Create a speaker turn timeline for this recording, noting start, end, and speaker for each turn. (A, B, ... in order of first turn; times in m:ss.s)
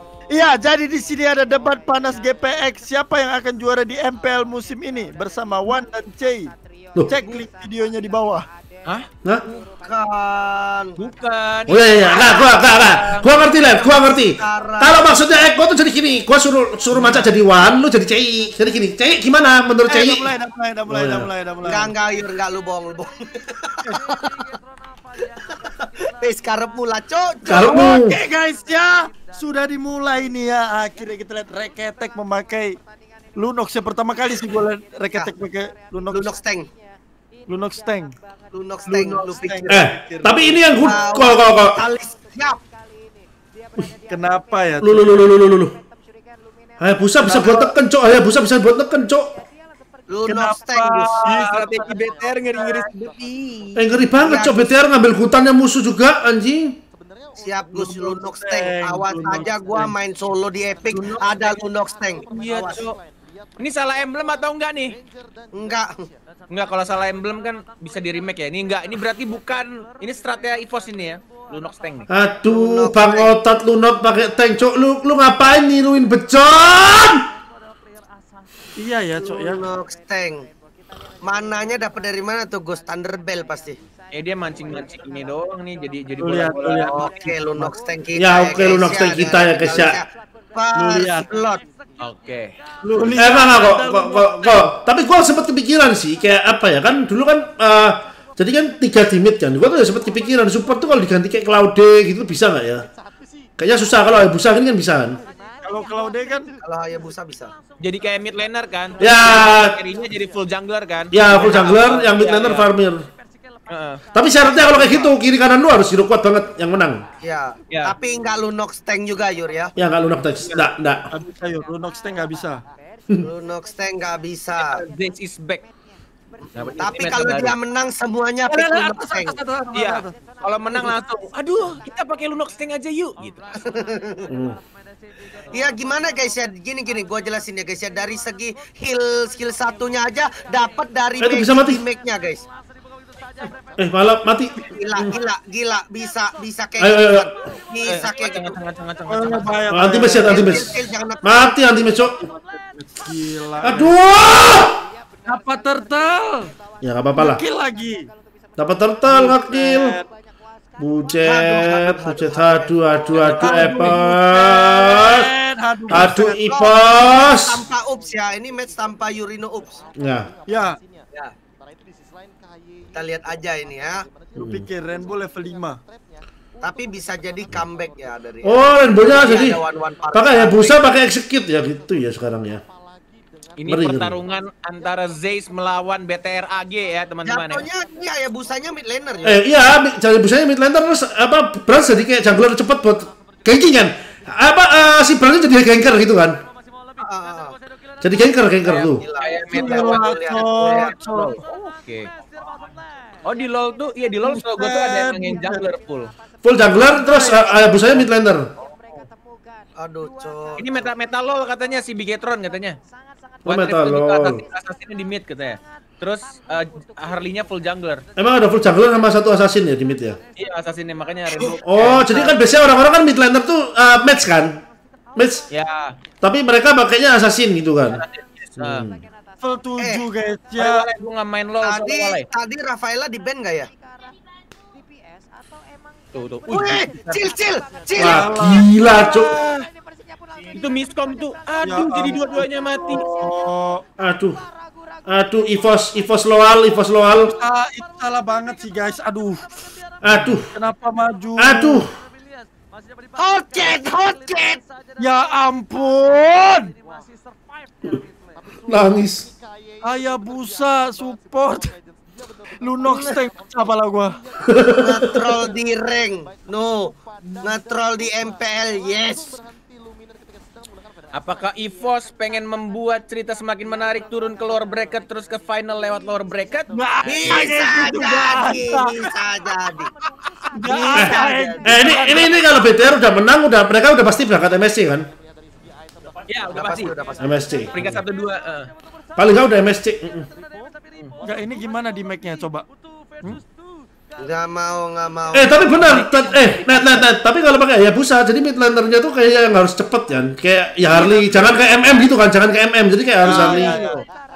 0:00.3-0:06.5 A
0:07.1-0:08.4 A
0:09.4-0:11.0 B
0:11.0-0:13.3 C
0:11.7-0:20.3 D
0:12.1-0:12.4 B
0:13.4-0:15.4 B
0:17.0-0:17.2 C
0:19.9-0:21.9 A
0:20.9-0:21.3 D
0:21.6-0:24.3 B
0:25.2-0:27.8 B
0:27.4-0:28.2 D
0:27.5-0:32.8 A
0:33.4-0:36.3 A
0:36.1-0:36.7 B
0:37.5-0:38.1 A
0:38.5-0:39.8 B
0:38.8-0:41.0 A
0:39.7-0:41.8 D
0:40.8-0:42.6 B
0:44.1-0:45.2 A
0:44.8-0:45.8 D
0:46.8-0:49.4 D
0:47.2-0:47.7 A
0:50.1-0:51.4 B
0:50.2-0:52.3 A
0:51.2-0:53.8 C
0:52.2-0:52.9 B
0:53.8-0:56.8 D
0:54.1-0:54.7 B
0:57.4-1:02.8 B
0:57.7-0:59.9 A
1:00.9-1:01.6 C
1:02.3-1:03.0 C
1:03.6-1:05.0 C
1:05.5-1:06.1 B
1:06.5-1:12.1 C
1:12.1-1:17.2 D
1:12.5-1:13.3 B
1:18.8-1:19.6 A
1:19.2-1:20.5 B
1:21.2-1:23.8 B
1:24.1-1:27.0 C
1:26.2-1:27.7 A
1:26.9-1:31.6 B
1:28.2-1:30.0 D
1:30.7-1:31.3 A
1:32.0-1:32.5 C
1:32.8-1:34.7 A
1:33.2-1:42.9 D
1:43.6-1:45.2 D
1:45.6-1:46.5 A
1:46.6-1:47.5 B
1:47.8-1:52.7 C
1:49.0-1:49.7 D
1:51.1-1:53.0 D
1:53.7-1:54.0 C
1:54.1-1:57.0 D
1:54.4-1:55.1 B
1:57.2-1:59.7 B
1:57.7-1:57.9 C
1:59.8-2:01.1 D
2:00.4-2:00.6 C
2:01.1-2:02.6 A
2:03.2-2:04.8 B
2:04.6-2:05.7 C
2:06.5-2:07.6 C
2:06.6-2:09.4 B
2:08.5-2:10.2 A
2:09.7-2:13.5 C
2:13.6-2:14.3 B
2:14.3-2:14.6 D
2:15.5-2:22.4 B
2:21.2-2:21.8 D
2:23.8-2:25.1 D
2:24.6-2:28.6 B
2:26.8-2:27.3 D
2:27.8-2:29.6 C
2:29.1-2:30.6 A
2:29.7-2:32.2 D
2:30.2-2:31.5 B
2:32.2-2:33.9 A
2:33.6-2:34.8 D
2:35.2-2:36.5 A
2:36.8-2:37.4 D
2:37.2-2:38.1 A
2:38.6-2:40.0 D
2:39.1-2:40.1 A
2:40.8-2:45.3 D
2:41.2-2:43.6 B
2:43.1-2:43.6 C
2:43.4-2:46.4 A
2:45.9-2:47.6 D
2:45.9-2:49.8 B
2:50.0-2:50.3 D
2:50.5-2:50.8 A
2:52.9-2:54.1 B
2:54.4-2:54.7 D
2:54.4-2:55.8 A
2:56.6-3:00.8 B
2:58.4-2:59.6 D
3:00.1-3:02.6 D
3:03.6-3:07.6 C
3:03.7-3:04.2 D
3:07.2-3:09.4 B
3:09.2-3:16.4 D
3:17.0-3:17.6 B
3:18.0-3:19.0 D
3:18.6-3:21.0 B
3:18.6-3:22.1 C
3:19.5-3:21.4 A
3:23.2-3:26.1 C
3:24.2-3:25.6 A
3:26.4-3:28.5 D
3:26.8-3:28.0 A
3:29.8-3:30.9 B
3:30.6-3:32.8 C
3:33.4-3:34.4 D
3:33.4-3:38.0 C
3:38.2-3:40.2 D
3:40.4-3:42.4 C
3:41.6-3:44.6 D
3:45.2-3:45.4 D
3:45.5-3:46.0 C
3:46.2-3:48.0 D
3:47.9-3:48.9 C
3:48.6-3:49.0 D
3:49.4-3:50.8 A
3:49.8-3:50.0 B
3:50.6-3:52.3 C
3:51.6-3:53.7 B
3:56.1-3:57.2 C
3:56.5-3:58.3 B
3:58.0-3:58.7 A
3:58.0-3:59.4 D
3:58.8-3:59.6 C
4:00.5-4:03.0 C
4:01.6-4:03.8 A
4:04.0-4:04.4 D
4:05.0-4:07.3 D
4:07.3-4:09.4 A
4:10.0-4:10.5 D
4:10.1-4:11.8 A
4:11.4-4:11.9 D
4:13.2-4:14.6 B
4:15.0-4:16.7 A
4:18.7-4:19.3 D
4:19.8-4:21.7 A
4:22.6-4:24.1 A
4:22.8-4:23.2 B
4:24.4-4:25.2 D
4:24.7-4:29.4 B
4:31.1-4:36.7 C
4:36.7-4:39.1 A
4:37.0-4:39.9 B
4:40.5-4:42.5 A
4:40.6-4:41.9 B
4:41.0-4:45.1 D
4:46.3-4:46.9 C
4:46.5-4:47.3 B
4:47.2-4:48.0 D
4:47.7-4:48.7 C
4:49.2-4:50.3 D
4:51.2-4:52.6 A
4:54.2-4:56.0 B
4:55.3-5:03.8 D
4:55.7-4:57.1 C
5:00.9-5:01.6 C
5:03.2-5:04.0 A
5:03.2-5:04.0 C